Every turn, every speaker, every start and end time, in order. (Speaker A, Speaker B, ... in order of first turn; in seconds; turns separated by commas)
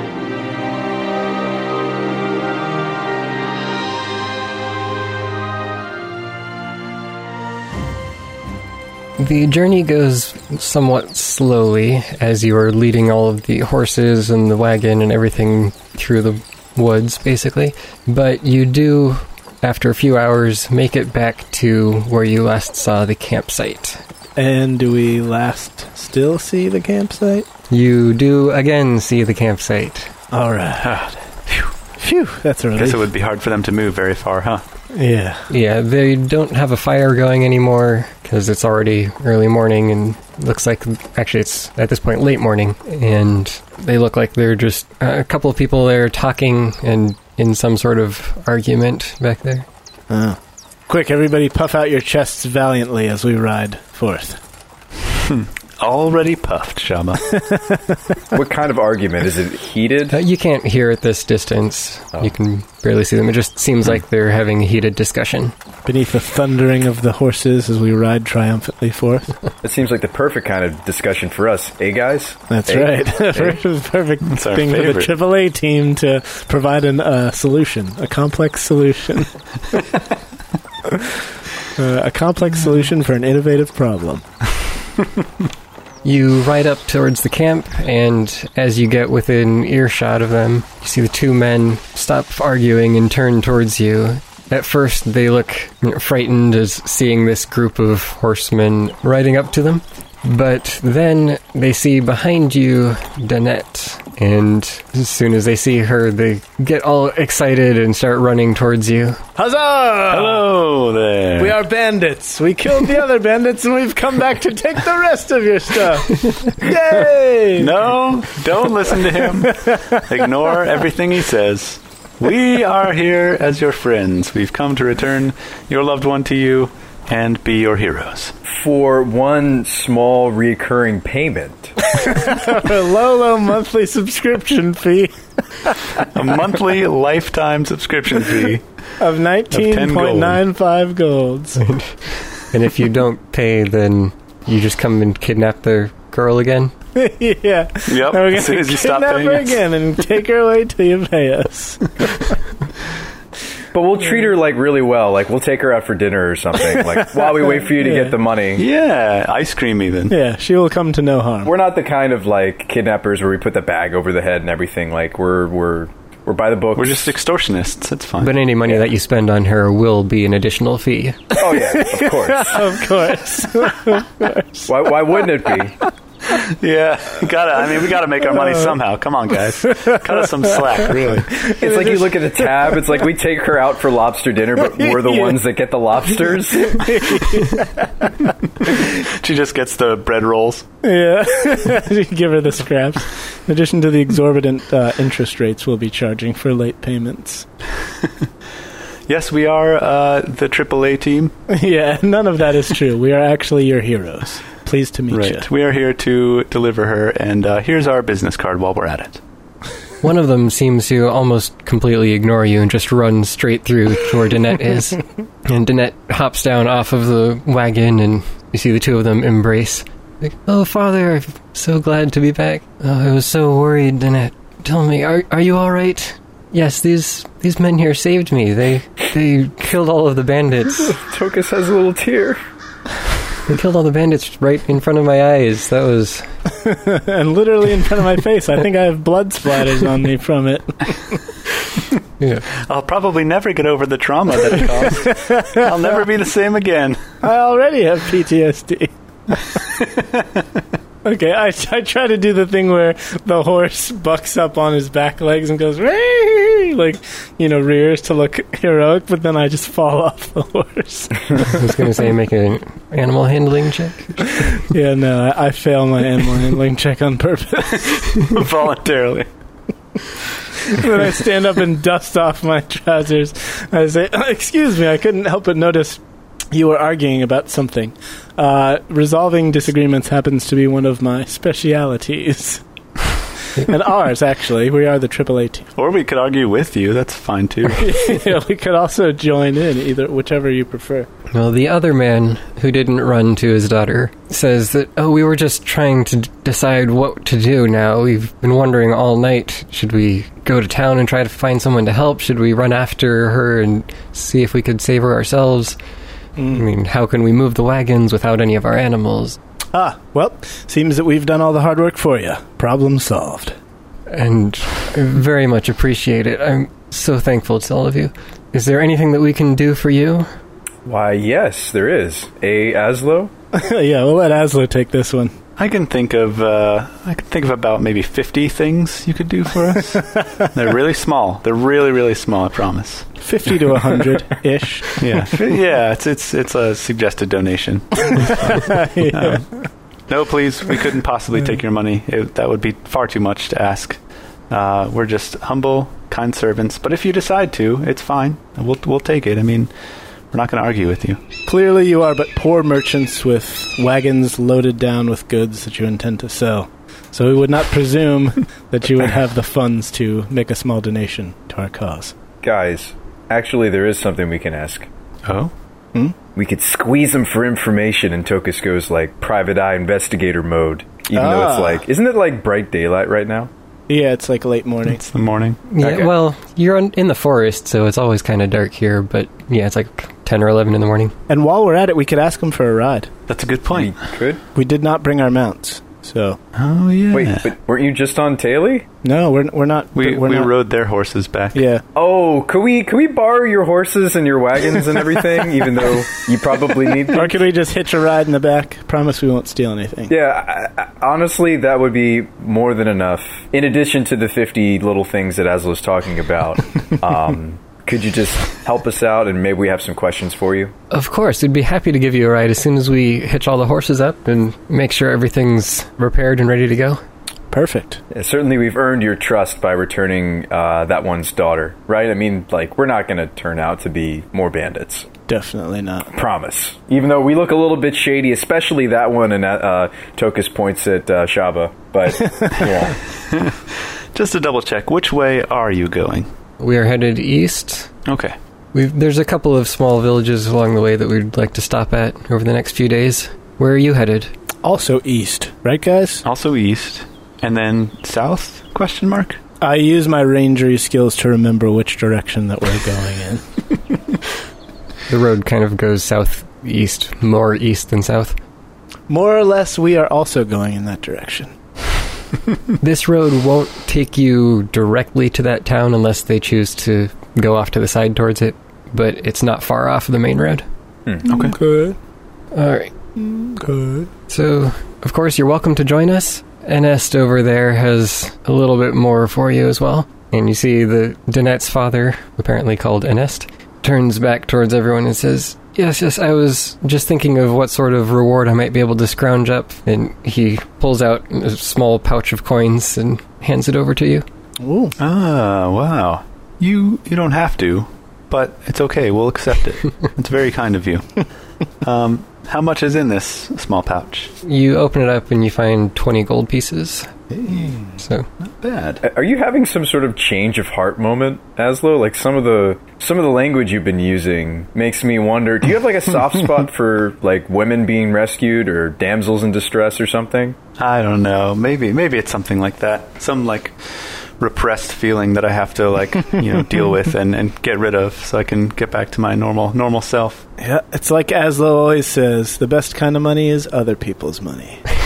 Speaker A: 9.2-24.0, Speaker B: 24.4-27.5, Speaker A: 27.7-30.1, Speaker B: 30.3-31.0, Speaker C: 30.8-31.7, Speaker B: 32.0-33.1, Speaker C: 32.8-34.6, Speaker B: 34.9-35.5, Speaker A: 35.5-49.7, Speaker B: 50.1-54.4, Speaker C: 55.2-57.4, Speaker B: 57.3-58.0, Speaker D: 58.3-60.2, Speaker A: 60.1-65.5, Speaker B: 65.8-69.3, Speaker D: 69.6-73.6, Speaker B: 72.5-79.3, Speaker C: 74.2-75.1, Speaker B: 80.9-81.2, Speaker B: 81.8-84.2, Speaker A: 86.0-109.2, Speaker B: 109.4-110.5, Speaker C: 110.1-111.6, Speaker B: 111.4-117.9, Speaker C: 117.6-128.3, Speaker B: 119.2-120.5, Speaker D: 128.5-131.9, Speaker B: 131.9-136.1, Speaker C: 136.1-138.6, Speaker B: 139.0-141.6, Speaker C: 139.5-140.4, Speaker A: 141.6-141.9, Speaker A: 142.5-146.7, Speaker B: 146.9-152.3, Speaker C: 147.9-149.6, Speaker D: 153.7-158.6, Speaker B: 156.8-158.2, Speaker C: 158.6-160.2, Speaker B: 160.1-161.5, Speaker D: 161.4-167.2, Speaker C: 166.8-168.3, Speaker A: 168.2-171.4, Speaker D: 171.3-172.8, Speaker B: 171.4-175.5, Speaker D: 174.7-175.8, Speaker C: 176.3-181.5, Speaker B: 178.3-178.8, Speaker B: 179.7-182.8, Speaker D: 181.5-187.2, Speaker B: 184.6-185.4, Speaker B: 186.2-188.3, Speaker C: 188.6-190.7, Speaker B: 190.8-197.5, Speaker C: 199.1-201.3, Speaker B: 201.5-205.5, Speaker C: 205.1-209.2, Speaker A: 210.0-231.0, Speaker D: 230.8-232.4, Speaker A: 233.5-236.3, Speaker B: 236.5-241.2, Speaker A: 242.2-242.5, Speaker C: 242.6-247.0, Speaker B: 245.1-245.7, Speaker B: 247.2-248.9, Speaker B: 251.0-261.4, Speaker A: 261.4-264.6, Speaker B: 264.7-268.3, Speaker C: 267.8-269.3, Speaker B: 270.6-282.6, Speaker B: 283.6-285.7, Speaker C: 285.8-288.0, Speaker B: 287.8-291.1, Speaker A: 291.3-305.8, Speaker B: 306.4-306.6, Speaker A: 306.5-309.4, Speaker B: 309.7-313.6, Speaker A: 314.1-320.3, Speaker D: 320.9-323.3, Speaker B: 323.5-325.4, Speaker C: 325.6-333.1, Speaker B: 330.0-330.5, Speaker B: 333.2-335.0, Speaker C: 335.0-339.4, Speaker B: 338.4-339.6, Speaker C: 340.1-344.0, Speaker C: 344.5-349.7, Speaker C: 350.3-351.2, Speaker B: 351.5-362.1, Speaker D: 362.4-364.9, Speaker C: 365.3-365.5, Speaker D: 366.4-373.5, Speaker B: 371.1-371.8, Speaker B: 373.9-375.0, Speaker C: 374.9-375.7, Speaker A: 375.7-381.1, Speaker D: 375.8-376.1, Speaker B: 381.3-383.1, Speaker C: 383.3-384.0, Speaker D: 383.7-384.4, Speaker B: 384.6-386.4, Speaker C: 386.6-387.5, Speaker D: 387.1-388.9, Speaker B: 389.0-390.5, Speaker C: 390.0-391.6, Speaker B: 391.5-391.8, Speaker D: 391.9-397.4, Speaker B: 397.1-400.1, Speaker D: 400.1-410.7, Speaker A: 410.9-417.0, Speaker B: 417.5-418.0, Speaker D: 418.1-425.1, Speaker B: 425.3-426.1, Speaker D: 426.1-433.0, Speaker C: 433.3-433.6, Speaker C: 434.1-436.3, Speaker A: 436.6-437.9, Speaker C: 438.1-438.4, Speaker A: 438.7-444.3, Speaker B: 444.6-446.2, Speaker C: 446.2-449.4, Speaker B: 449.6-453.4, Speaker A: 455.1-458.4, Speaker B: 459.1-461.6, Speaker A: 462.8-470.6, Speaker B: 471.2-472.0, Speaker C: 471.3-471.6, Speaker A: 472.5-472.9, Speaker B: 473.2-474.1, Speaker A: 474.3-494.2, Speaker B: 494.6-495.0, Speaker C: 495.0-501.2, Speaker C: 501.8-504.3, Speaker A: 504.4-507.1, Speaker C: 507.3-507.8, Speaker A: 508.0-508.3, Speaker C: 508.6-509.0, Speaker D: 509.0-520.6, Speaker C: 520.8-523.8, Speaker C: 524.4-530.4, Speaker B: 530.6-534.8